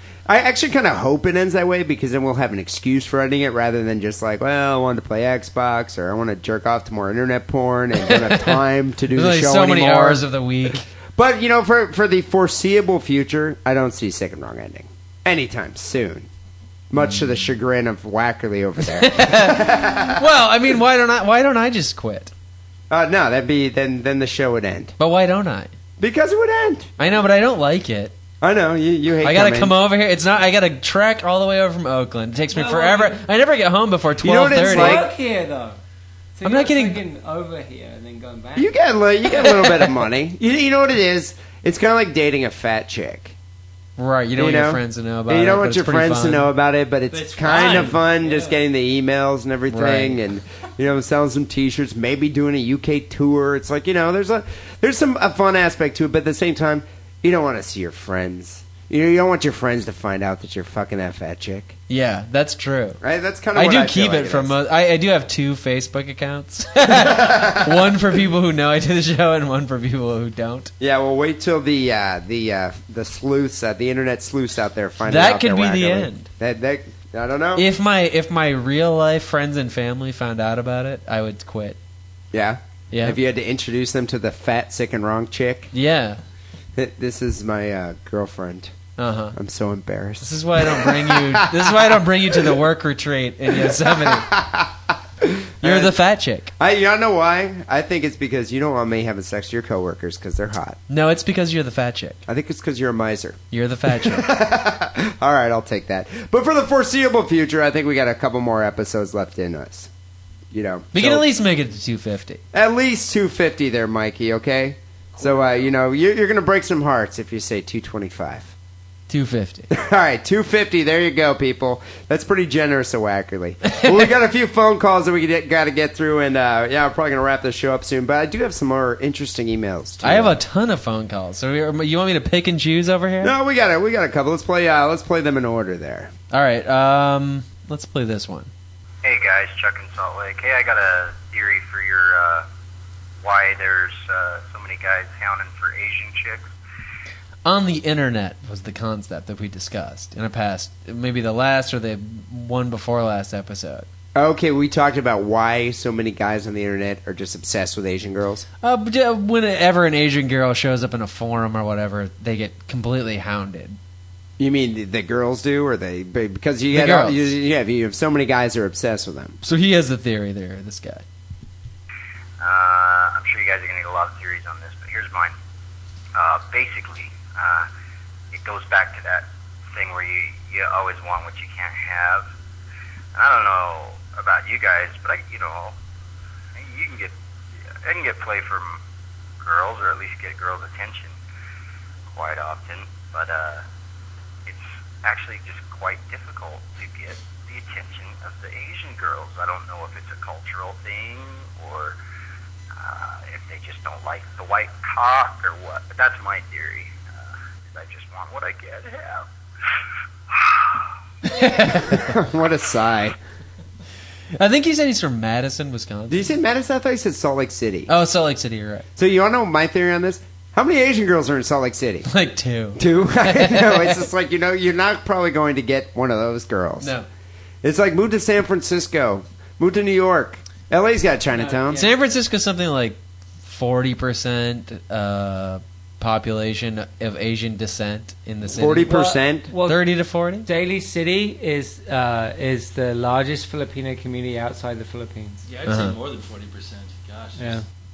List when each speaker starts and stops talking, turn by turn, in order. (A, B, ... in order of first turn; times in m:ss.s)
0:00.3-0:16.3 A
0:08.1-0:08.6 B
0:09.1-0:10.8 B
0:16.9-0:20.2 A
0:19.0-0:22.3 B
0:22.9-0:24.9 A
0:25.0-0:25.7 B
0:26.0-0:26.9 A
0:27.0-0:28.1 B
0:28.4-0:29.8 A
0:29.2-0:35.1 B
0:32.5-0:33.2 C
0:34.2-0:35.1 A
0:34.5-0:35.8 C
0:36.4-0:38.7 C
0:36.4-0:37.0 B
0:38.6-0:43.3 A
0:44.0-0:46.5 B
0:44.4-1:01.8 A
0:47.1-0:48.6 C
0:49.7-0:50.2 B
1:01.9-1:03.0 B
1:03.0-1:04.6 A
1:03.5-1:10.7 B
1:06.9-1:07.7 A
1:10.8-1:17.6 A
1:15.0-1:16.3 B
1:17.5-1:21.8 B
1:22.3-1:25.7 A
1:22.9-1:23.2 B
1:25.7-1:26.2 B
1:26.8-1:28.7 A
1:29.0-1:29.4 B
1:29.3-1:32.6 A
1:30.2-1:34.3 B
1:33.5-1:36.0 A
1:35.6-1:36.5 B
1:36.6-1:40.8 A
1:40.9-1:42.2 B
1:42.3-1:49.9 A
1:43.5-1:44.3 B
1:50.5-1:51.3 A
1:50.9-1:52.4 B
1:52.5-1:58.5 A
1:59.1-1:59.7 B
1:59.7-2:10.4 A
2:10.0-2:13.4 B
2:13.2-2:16.1 A
2:16.3-2:18.5 B
2:19.0-2:22.4 D
2:23.2-2:26.5 D
2:27.4-2:33.9 B
2:34.1-2:38.4 A
2:38.6-2:43.8 B
2:44.4-2:49.4 A
2:46.7-2:47.3 B
2:49.4-2:51.0 B
2:52.4-2:55.3 D
2:56.1-2:57.7 D
2:58.3-3:02.3 D
3:03.1-3:05.7 D
3:06.5-3:07.1 D
3:07.7-3:08.8 D
3:09.4-3:11.2 D
3:12.1-3:13.6 D
3:14.4-3:22.0 D
3:22.7-3:29.2 D
3:30.3-3:30.6 D
3:31.2-3:32.1 B
3:31.7-3:33.2 A
3:34.4-3:36.3 B
3:36.1-3:37.9 A
3:37.9-3:38.8 B
3:39.0-3:42.1 A
3:42.0-3:44.0 B
3:42.8-3:46.9 A
3:46.8-3:47.1 B
3:47.6-3:51.8 A
3:51.3-3:51.9 C
3:51.7-3:58.9 B
3:58.5-3:59.5 A
3:58.8-4:05.4 C
3:59.6-4:00.5 B
4:05.4-4:07.6 E
4:05.6-4:06.0 B
4:07.4-4:07.6 C